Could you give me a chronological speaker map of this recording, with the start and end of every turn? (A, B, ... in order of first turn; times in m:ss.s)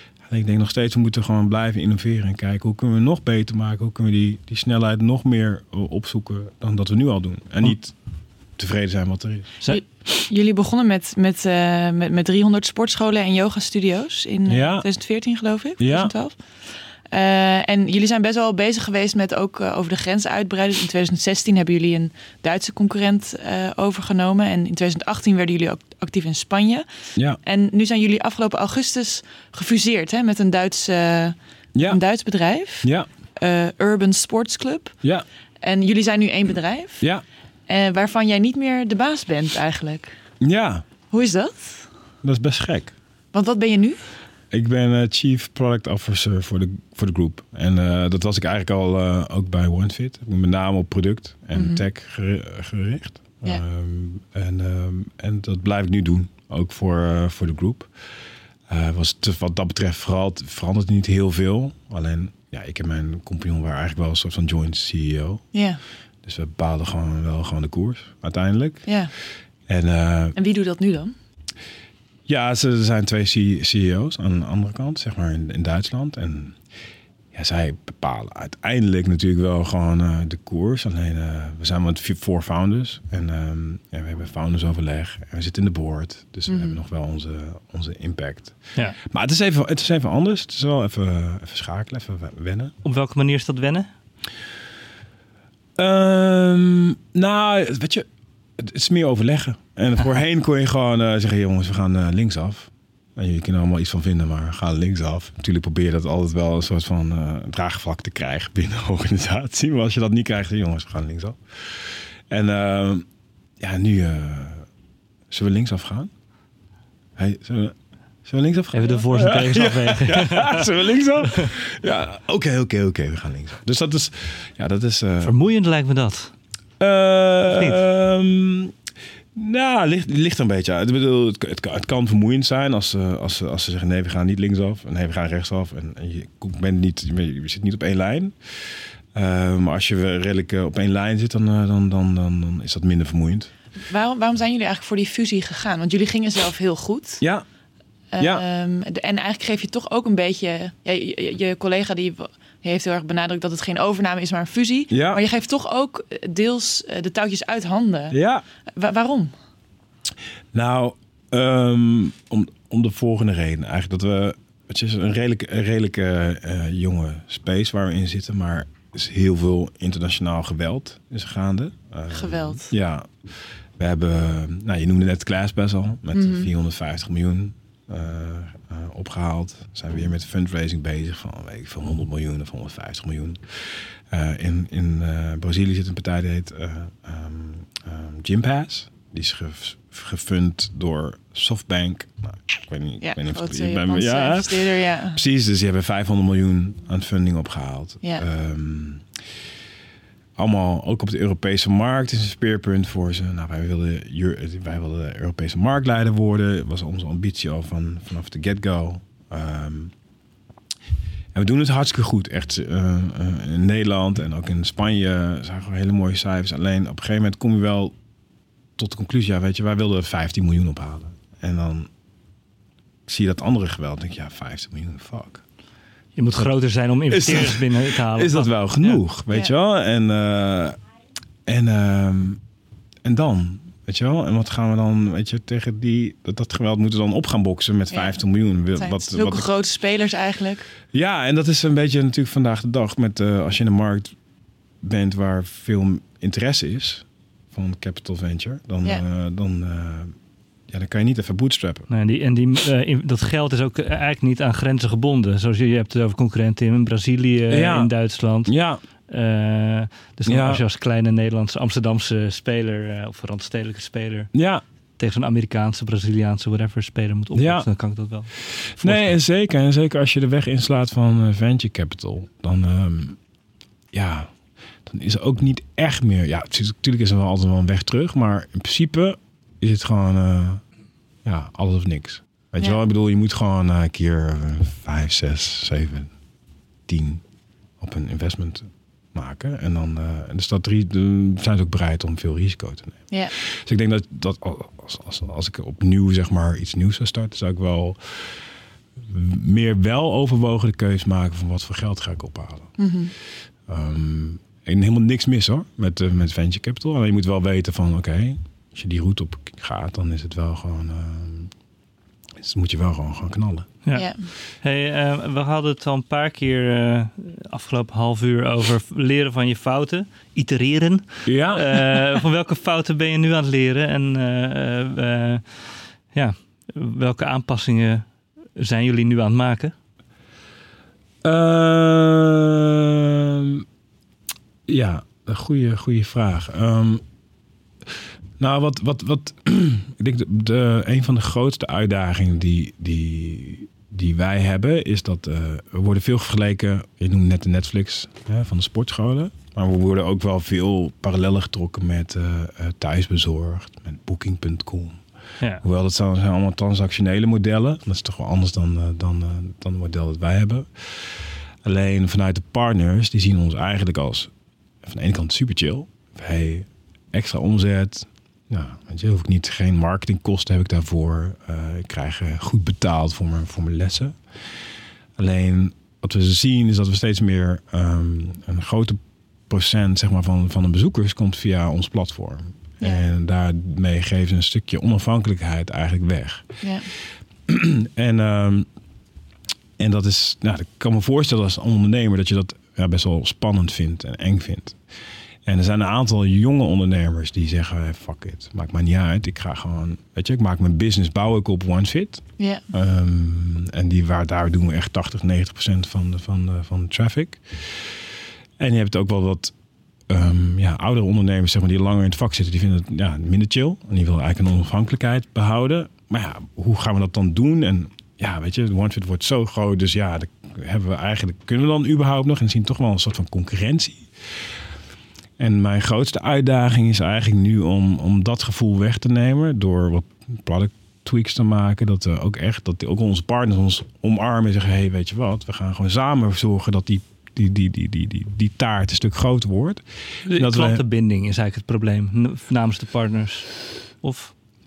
0:00.2-0:08.0 A
0:08.6-0:09.5 A
0:09.7-0:16.4 B
0:14.5-0:14.9 A
0:15.8-0:16.1 A
0:17.1-0:26.9 B
0:27.4-0:35.0 B
0:31.7-0:32.0 A
0:32.8-0:33.1 A
0:35.6-0:37.0 B
0:37.7-0:40.1 B
0:40.4-0:40.8 A
0:41.1-0:41.9 B
0:42.2-0:42.9 A
0:43.3-0:44.0 B
0:44.5-0:57.9 A
0:51.5-0:51.8 B
0:58.7-1:05.4 A
1:05.5-1:05.8 B
1:06.2-1:08.9 A
1:08.9-1:09.1 B
1:09.7-1:10.4 A
1:10.4-1:11.1 B
1:12.3-1:16.6 A
1:17.3-1:32.7 A
1:26.5-1:26.8 B
1:32.8-1:33.9 C
1:35.8-1:38.1 A
1:38.6-1:53.0 A
1:53.6-1:54.7 A
1:55.3-1:56.1 A
1:57.2-2:05.3 A
1:58.7-2:00.7 C
2:05.2-2:06.3 C
2:06.8-2:08.7 A
2:07.5-2:07.8 C
2:09.4-2:23.5 A
2:23.8-2:27.2 B
2:28.1-2:38.2 B
2:28.2-2:28.4 A
2:34.9-2:35.2 A
2:38.1-2:38.4 A
2:38.8-2:39.3 B
2:40.5-3:19.1 A
2:52.1-2:52.7 B
2:56.1-2:56.5 B
3:13.0-3:15.2 B
3:20.4-3:29.9 A
3:31.3-3:37.9 A
3:38.8-3:41.9 A
3:43.1-3:45.4 A
3:46.2-3:49.0 C
3:47.1-3:50.8 A
3:51.4-3:52.4 A
3:53.0-3:59.5 A
3:57.9-3:58.2 B
3:58.7-4:00.7 B
4:00.9-4:04.1 A
4:04.8-4:10.1 A
4:10.7-4:11.9 A
4:11.9-4:18.5 C
4:17.5-4:17.9 A
4:18.4-4:18.8 A
4:19.1-4:24.3 C
4:20.3-4:20.6 A
4:24.3-4:24.6 A
4:25.0-4:29.2 C
4:27.4-4:27.7 A
4:28.8-4:33.2 A
4:33.9-4:34.3 A
4:34.9-4:40.6 A
4:41.2-4:46.1 A
4:46.9-4:47.2 A
4:47.8-5:02.8 A
5:02.8-5:03.1 B
5:03.7-5:11.5 A
5:12.4-5:13.7 A
5:13.8-5:29.7 C
5:13.9-5:14.3 B
5:21.2-5:22.0 A
5:31.2-5:33.6 A
5:34.7-5:37.0 A
5:38.4-5:55.0 A
5:55.6-6:04.3 A
6:04.8-6:14.2 A
6:15.2-6:26.5 A
6:26.6-6:26.9 B
6:27.4-6:28.7 A
6:29.8-6:34.8 A
6:35.4-6:49.5 A
6:50.1-7:04.5 A
7:05.4-7:20.8 A
7:20.3-7:24.3 C